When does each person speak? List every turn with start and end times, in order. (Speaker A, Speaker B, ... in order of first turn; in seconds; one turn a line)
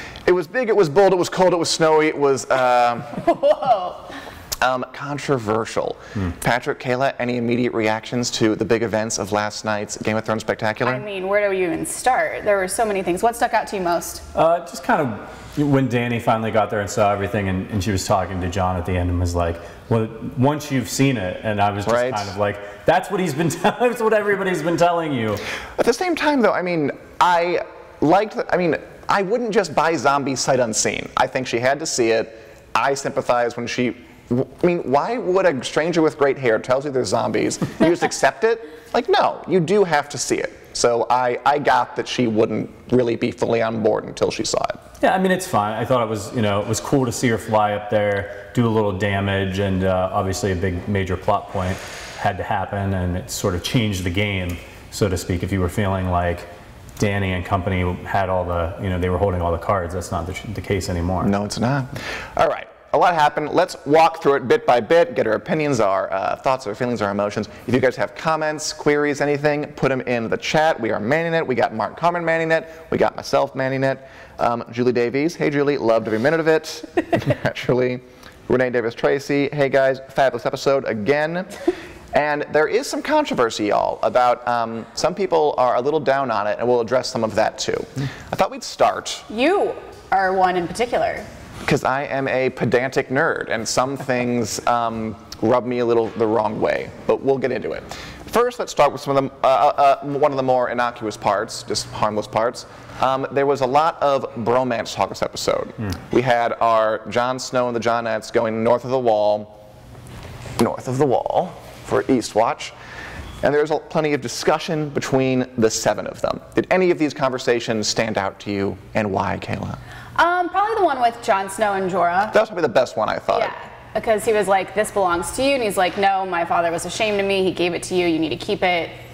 Speaker A: 0.2-3.2
Speaker B: 3.1-4.1
Speaker A: 4.6-11.0
Speaker B: 10.8-14.2
Speaker C: 14.3-25.4
Speaker A: 21.8-22.3
Speaker A: 25.8-44.8
Speaker C: 45.0-56.5
Speaker C: 57.0-61.3
Speaker A: 61.2-81.5
Speaker A: 82.1-89.3
Speaker B: 89.3-91.3
Speaker A: 91.6-109.6
Speaker A: 110.6-112.7
Speaker A: 113.4-119.8
Speaker B: 120.2-122.3
Speaker A: 122.3-123.5
Speaker B: 123.3-128.9